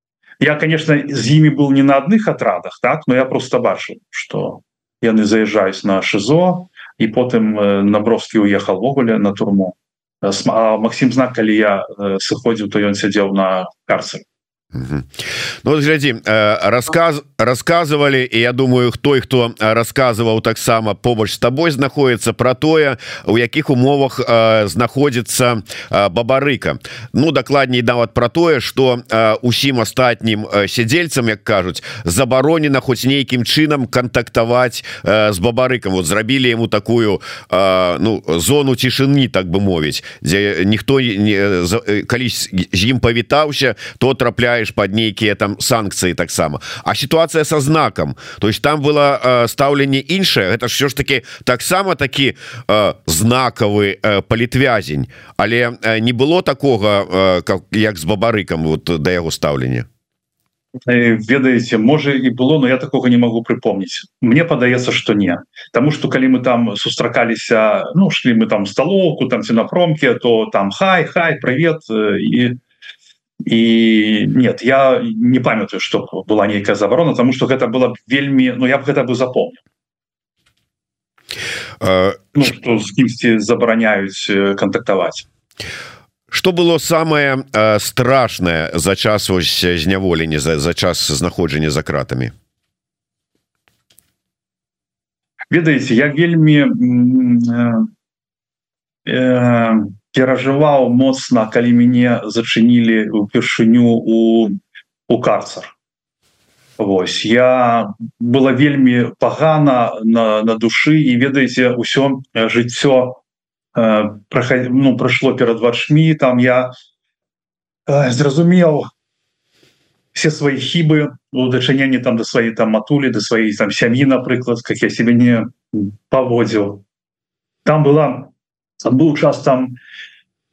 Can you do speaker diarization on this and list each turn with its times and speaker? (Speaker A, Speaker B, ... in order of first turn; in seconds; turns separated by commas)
Speaker A: 0.4-14.2, Speaker B: 14.7-15.1, Speaker B: 15.6-59.9, Speaker A: 60.9-72.6, Speaker A: 73.4-79.6, Speaker B: 81.8-82.3, Speaker A: 82.3-85.2, Speaker B: 86.3-92.3, Speaker A: 95.5-97.9, Speaker A: 99.0-104.6, Speaker A: 105.1-105.7, Speaker A: 106.8-113.2, Speaker A: 113.7-116.7, Speaker A: 117.9-118.9, Speaker A: 120.1-126.8, Speaker A: 127.6-128.3, Speaker A: 128.8-129.7